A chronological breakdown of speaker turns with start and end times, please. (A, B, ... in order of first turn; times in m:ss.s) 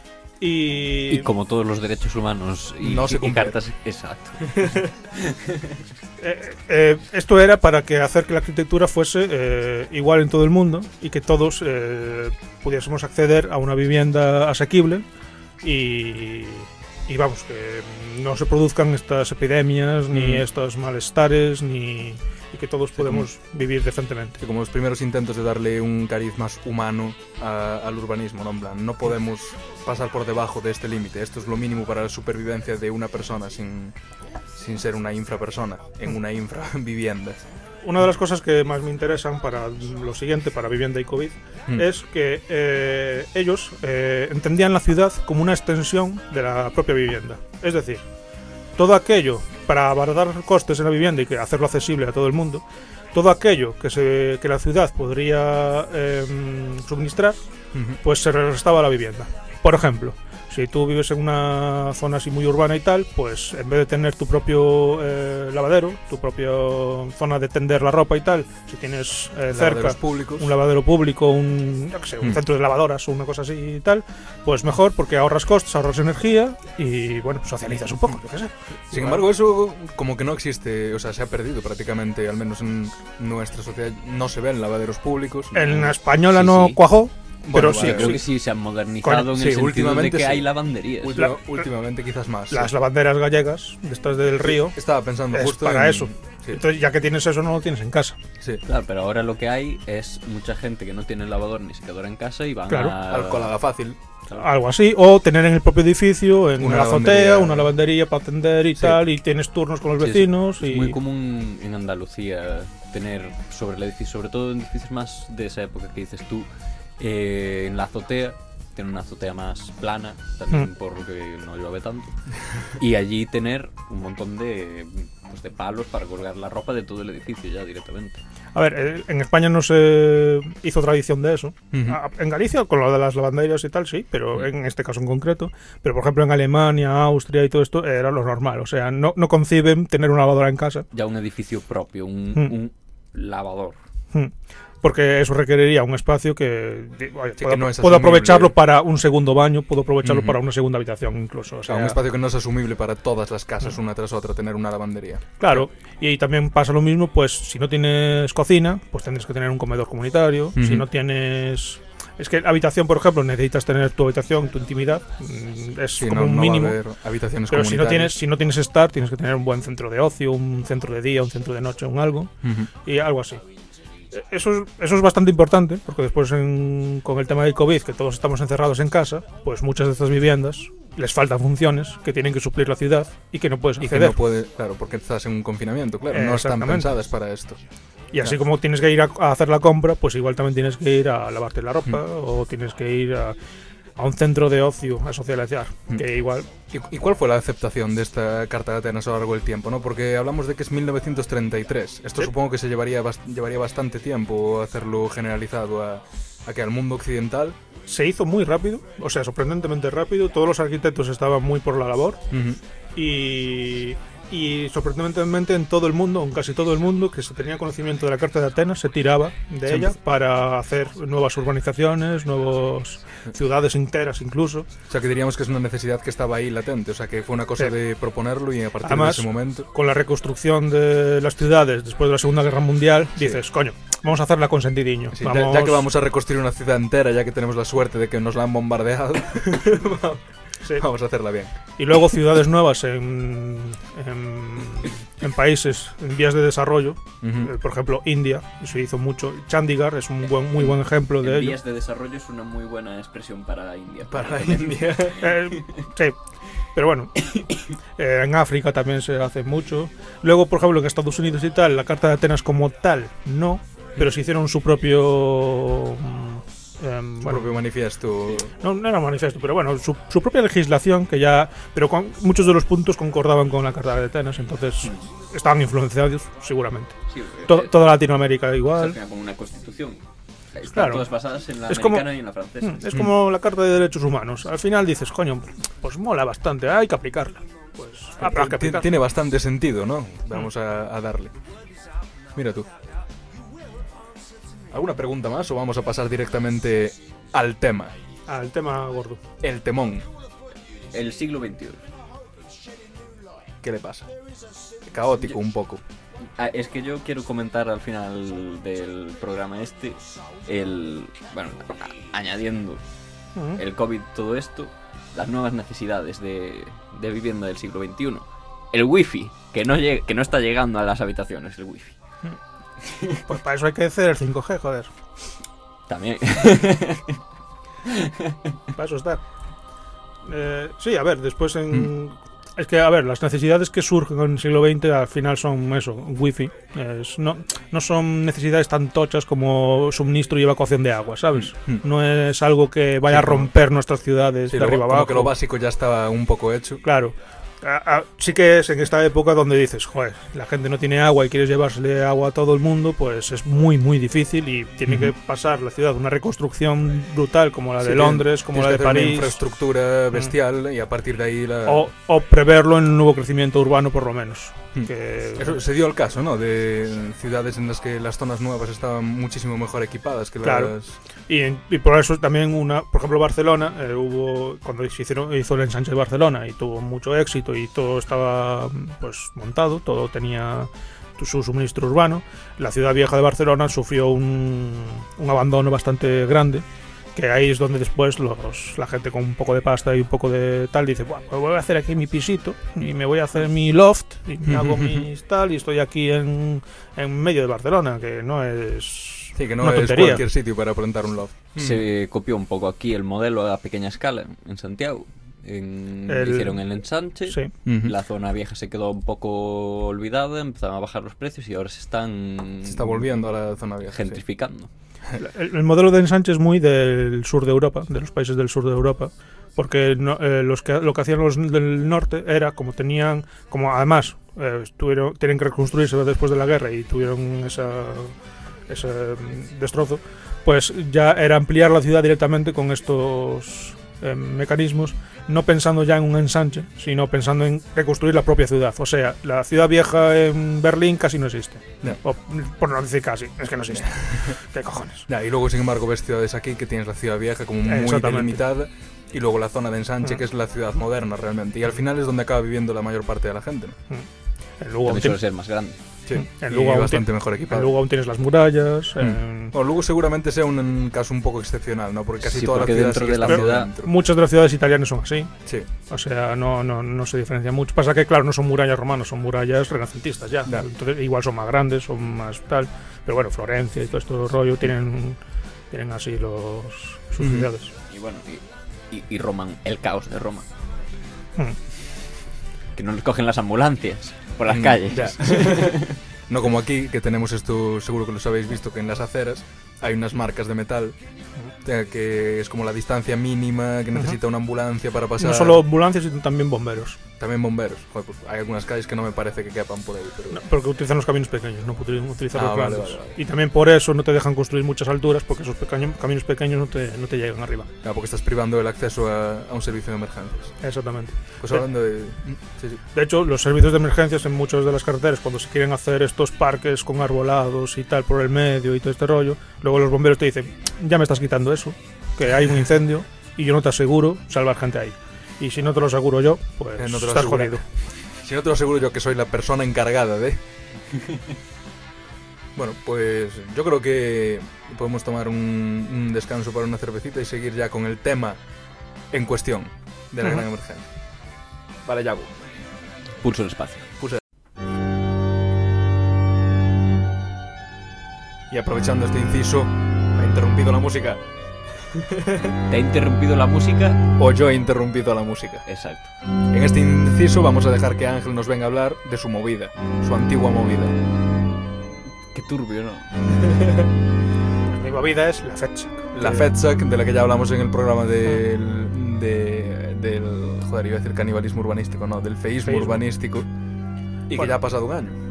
0:00.4-0:01.3 A
0:01.1-0:05.8 B
0:02.8-0:03.6 C
0:06.2-0:15.0 A
0:15.6-0:24.4 A
0:20.1-0:20.4 C
0:24.4-0:34.0 C
0:34.6-0:37.4 C
0:37.8-0:48.1 A
0:48.8-0:57.4 A
0:57.7-0:58.0 C
0:58.0-1:19.2 A
1:09.5-1:10.5 C
1:18.9-1:25.9 C
1:25.5-1:28.3 A
1:26.3-1:26.8 B
1:27.4-1:28.2 C
1:27.7-1:31.3 B
1:29.0-1:29.3 A
1:29.3-1:32.7 C
1:31.2-1:31.6 A
1:32.5-1:34.8 A
1:34.4-1:36.6 C
1:35.3-1:38.2 A
1:38.7-1:43.6 B
1:42.7-1:42.9 A
1:43.1-1:44.0 C
1:44.3-1:51.0 A
1:46.6-1:47.7 C
1:50.0-1:56.5 B
1:57.0-2:02.2 B
2:02.8-2:08.2 B
2:08.6-2:20.9 A
2:11.7-2:12.0 C
2:20.9-2:23.8 B
2:24.1-2:32.0 A
2:27.4-2:28.5 C
2:30.0-2:30.4 C
2:31.7-2:35.6 C
2:35.4-2:46.8 A
2:40.6-2:40.9 C
2:46.0-2:48.2 C
2:47.5-2:53.4 A
2:52.4-2:52.7 C
2:54.1-3:04.2 A
3:03.8-3:07.6 C
3:06.1-3:06.9 A
3:08.1-3:13.4 A
3:14.0-3:16.5 A
3:16.7-3:27.6 C
3:27.9-3:32.3 A
3:32.3-3:32.6 C
3:33.0-3:44.7 A
3:39.7-3:39.9 C
3:44.9-3:49.7 C
3:48.8-3:55.9 A
3:55.1-4:01.5 C
4:01.8-4:11.6 A
4:07.2-4:07.5 C
4:10.6-4:15.7 B
4:14.1-4:15.3 C
4:15.2-4:16.2 A
4:16.7-4:17.4 A
4:18.0-4:27.6 A
4:27.2-4:28.5 C
4:28.6-4:37.0 A
4:37.1-4:37.9 B
4:37.5-4:39.0 A
4:38.7-4:40.0 B
4:40.6-4:42.8 B
4:40.7-4:41.1 A
4:41.7-4:42.1 A
4:42.6-4:49.0 A
4:48.2-4:51.4 C
4:52.4-4:52.7 C
4:54.7-4:58.0 C
4:58.3-4:59.2 A
4:59.4-5:00.1 C
5:00.9-5:01.8 B
5:03.6-5:04.1 C
5:04.8-5:05.8 C
5:06.2-5:12.8 B
5:13.4-5:13.6 A
5:13.6-5:22.0 B
5:23.3-5:24.9 A
5:25.9-5:27.2 B
5:27.9-5:28.5 B
5:28.8-5:29.2 A
5:30.3-5:45.3 A
5:41.4-5:41.8 C
5:43.1-5:43.5 C
5:44.5-5:46.8 C
5:46.8-5:59.4 A
5:54.9-5:55.1 C
5:57.8-6:01.9 C
6:01.7-6:05.6 A
6:04.8-6:11.0 C
6:10.4-6:10.8 A
6:11.3-6:40.2 A
6:34.4-6:35.1 C
6:39.4-6:41.8 C
6:41.6-6:53.3 B
6:46.1-6:46.6 A
6:47.6-6:47.9 C
6:52.7-6:54.2 C
6:53.9-6:54.7 B
6:55.2-7:08.2 A
7:08.7-7:25.1 A
7:23.7-7:24.4 C
7:25.1-7:33.8 C
7:27.7-7:28.4 A
7:34.6-7:35.2 A
7:34.8-7:35.8 B
7:36.1-7:37.7 C
7:36.1-7:39.5 A
7:39.0-7:44.0 C
7:42.2-7:43.7 B
7:43.3-7:45.3 A
7:45.9-7:55.2 A
7:55.7-7:57.7 A
7:57.2-7:57.5 C
7:57.9-8:00.5 B
8:02.8-8:06.0 B
8:04.5-8:11.0 C
8:11.6-8:15.6 C
8:15.2-8:17.0 A
8:17.2-8:20.4 C
8:20.3-8:27.7 A
8:22.3-8:23.2 C
8:27.8-8:30.5 C
8:30.6-8:31.7 A
8:31.4-8:32.8 C
8:32.9-8:47.6 A
8:46.8-8:50.4 C
8:52.6-8:58.4 C
8:59.1-9:00.9 C
9:01.8-9:02.3 C
9:03.2-9:03.9 B
9:08.5-9:12.6 C
9:12.7-9:14.0 B
9:14.2-9:15.7 C
9:15.7-9:16.1 B
9:16.5-9:21.0 C
9:22.3-9:23.5 B
9:24.7-9:26.5 A
9:26.1-9:33.5 C
9:32.6-9:33.1 A
9:34.3-9:35.2 C